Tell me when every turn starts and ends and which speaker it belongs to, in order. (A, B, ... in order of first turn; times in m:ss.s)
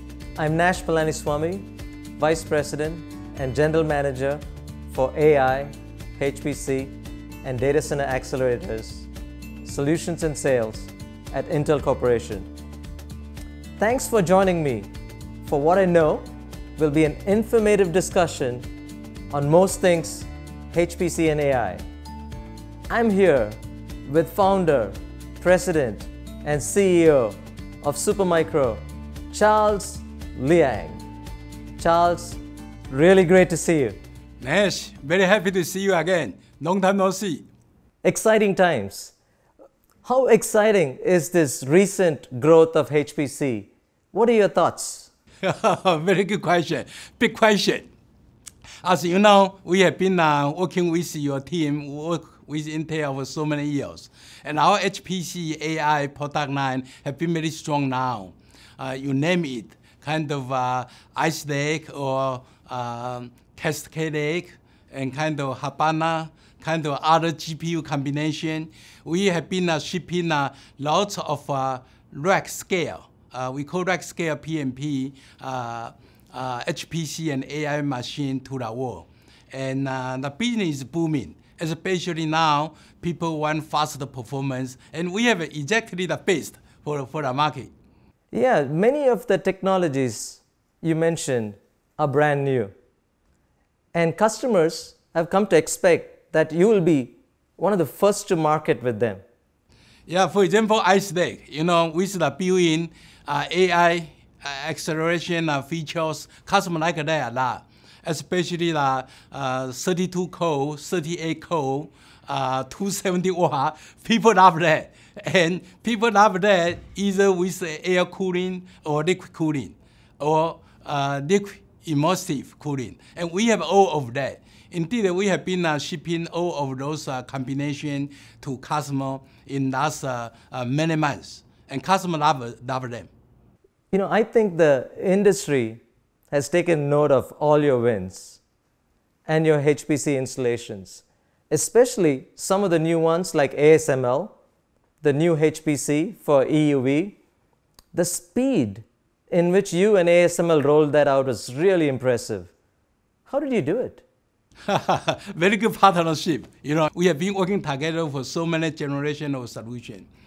0:00.4-0:01.7 A
0:02.2-0:09.1 A
0:09.6-0:12.5 A
0:13.8-0:14.9 A
0:15.5-0:16.2 A
0:16.8-0:18.7 A
0:19.3-0:21.8 A
0:22.9-0:31.0 A
0:31.8-0:34.0 A
0:34.4-0:37.5 B
0:38.0-0:39.1 A
0:40.0-0:45.1 A
0:45.4-0:47.9 B
0:48.8-1:27.7 B
1:28.3-1:32.7 A
1:33.9-1:39.2 A
1:40.1-2:13.1 B
2:13.9-2:18.4 A
2:19.3-2:24.4 A
2:25.0-2:27.2 A
2:27.9-2:32.5 A
2:33.3-2:34.0 A
2:34.7-2:40.1 B